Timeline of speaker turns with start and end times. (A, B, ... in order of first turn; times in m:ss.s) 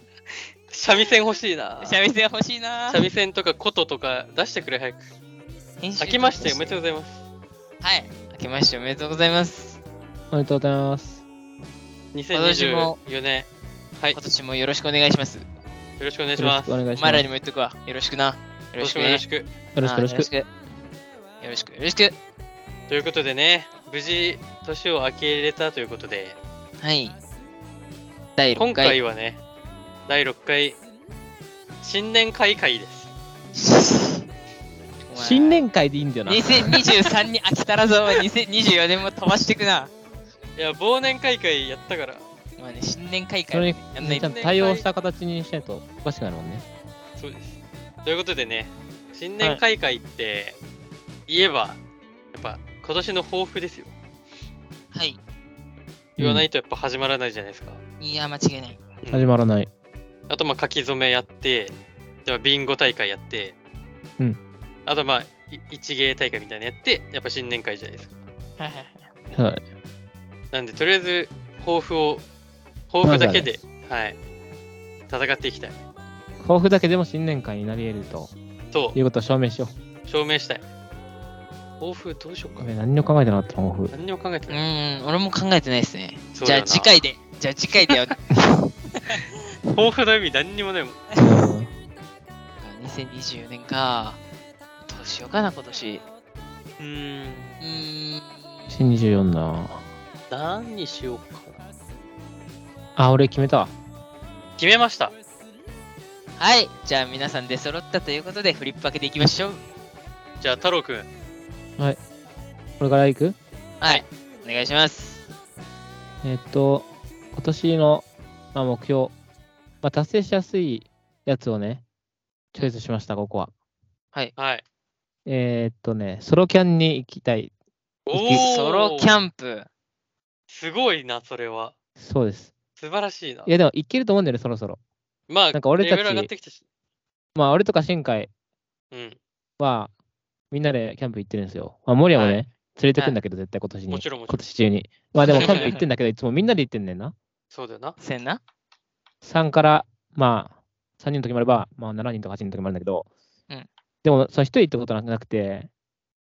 0:00.7-0:02.0 A
0:01.8-0:03.0 B
0:02.9-0:05.0 A
0:05.8-0:06.8 B
0:06.0-0:07.2 A
0:07.8-0:09.8 B
0:10.3-0:11.2 C
0:12.1-0:13.5 A
0:12.3-0:13.0 B
0:14.1-0:15.4 B
0:16.0-0:16.8 A
0:16.4-0:17.2 C
0:16.9-0:19.2 B
0:18.8-0:19.5 A
0:19.7-0:20.3 C
0:19.8-0:20.5 B
0:21.4-0:22.1 B
0:22.9-0:26.4 A
0:26.8-0:27.2 B
0:28.4-0:29.0 B
0:28.6-0:29.4 A
0:30.1-0:30.8 A
0:31.8-0:33.1 A
0:33.5-0:34.3 B
0:35.1-0:35.6 B
0:35.1-0:36.8 C
0:36.2-0:39.9 B
0:40.6-0:42.3 A
0:42.6-0:44.3 B
0:43.5-0:46.6 C
0:44.1-0:44.8 A
0:47.2-0:50.6 A
0:51.3-0:51.8 A
0:52.3-0:53.9 A
0:54.9-0:55.2 B
0:56.2-0:57.8 A
0:56.2-0:56.5 C
0:58.0-0:58.8 B
0:59.0-0:59.3 A
0:59.1-0:59.7 C
1:00.3-1:03.6 A
1:04.8-1:08.1 A
1:08.6-1:09.0 B
1:09.3-1:09.6 C
1:10.5-1:12.2 A
1:12.9-1:14.2 A
1:13.0-1:13.5 C
1:15.1-1:15.8 A
1:16.4-1:18.3 C
1:18.7-1:19.0 A
1:18.9-1:19.7 C
1:20.1-1:20.6 A
1:21.8-1:22.7 A
1:22.6-1:23.9 C
1:23.9-1:24.6 A
1:24.5-1:28.2 B
1:26.3-1:27.0 A
1:29.7-1:31.0 A
1:31.1-1:31.5 B
1:31.2-1:31.7 C
1:32.6-1:34.2 B
1:34.9-1:36.0 B
1:36.8-1:37.6 A
1:37.6-1:38.4 B
1:38.7-1:39.8 C
1:40.3-1:41.6 A
1:43.0-1:43.7 C
1:44.6-1:45.1 A
1:46.4-1:49.6 B
1:50.4-1:51.1 A
1:52.8-1:53.4 C
1:53.8-1:55.2 B
1:56.2-1:59.1 C
1:59.8-2:01.8 C
2:02.5-2:03.5 C
2:04.4-2:04.6 A
2:05.2-2:07.5 C
2:08.1-2:09.2 A
2:08.1-2:08.4 C
2:08.3-2:09.7 B
2:10.5-2:11.7 A
2:12.0-2:12.5 C
2:12.8-2:13.5 A
2:13.4-2:14.8 C
2:15.3-2:16.6 A
2:15.5-2:16.3 C
2:17.3-2:18.3 C
2:18.9-2:19.2 A
2:19.6-2:19.9 C
2:20.5-2:27.1 C
2:22.1-2:22.4 A
2:23.9-2:24.4 A
2:25.3-2:25.8 B
2:25.3-2:25.8 A
2:27.5-2:28.0 A
2:28.0-2:28.4 B
2:29.2-2:33.1 C
2:34.0-2:35.7 C